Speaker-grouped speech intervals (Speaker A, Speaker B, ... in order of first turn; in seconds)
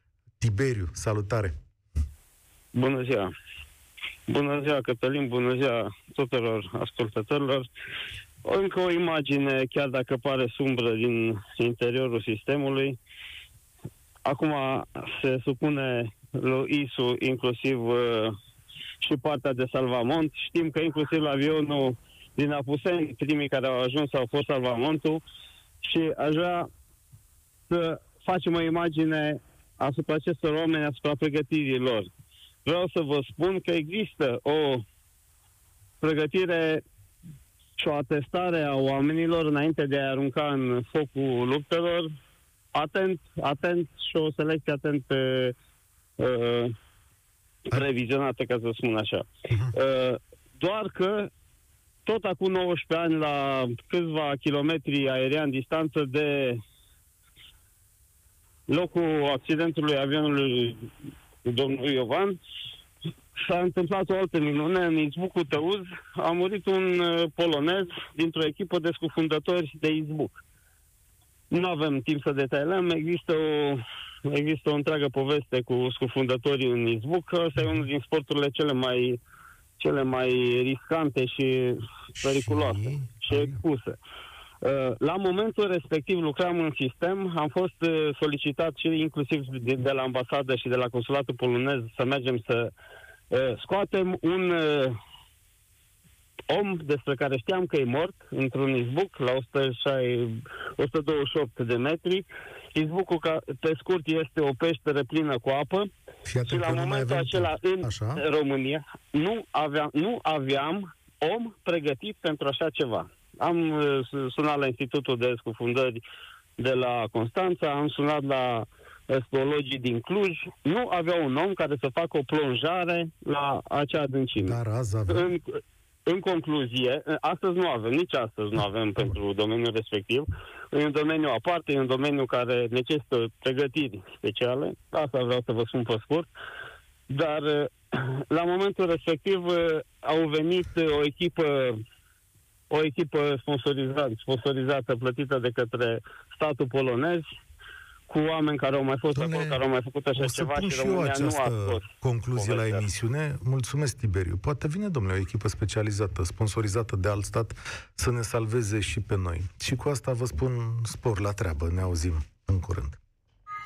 Speaker A: 0.4-1.5, 77.6-77.8, 82.2-83.6, 106.2-108.2, 124.4-125.3, 149.1-149.6, 150.1-163.0
Speaker B: 2.7-3.3, 4.3-7.7, 8.4-13.0, 14.2-18.3, 19.0-25.2, 25.8-26.7, 27.7-32.1, 32.6-34.8, 36.0-36.8, 37.8-42.1, 42.7-45.5, 46.2-46.7, 47.7-51.3, 52.0-56.6, 58.7-60.9, 61.4-62.4, 63.4-70.4, 71.5-79.2, 79.8-84.0, 84.6-92.7, 93.3-95.0, 96.5-105.9, 106.5-116.0, 116.6-124.6, 125.1-136.3, 137.1-141.8, 142.7-147.2, 148.1-151.8, 152.3-152.8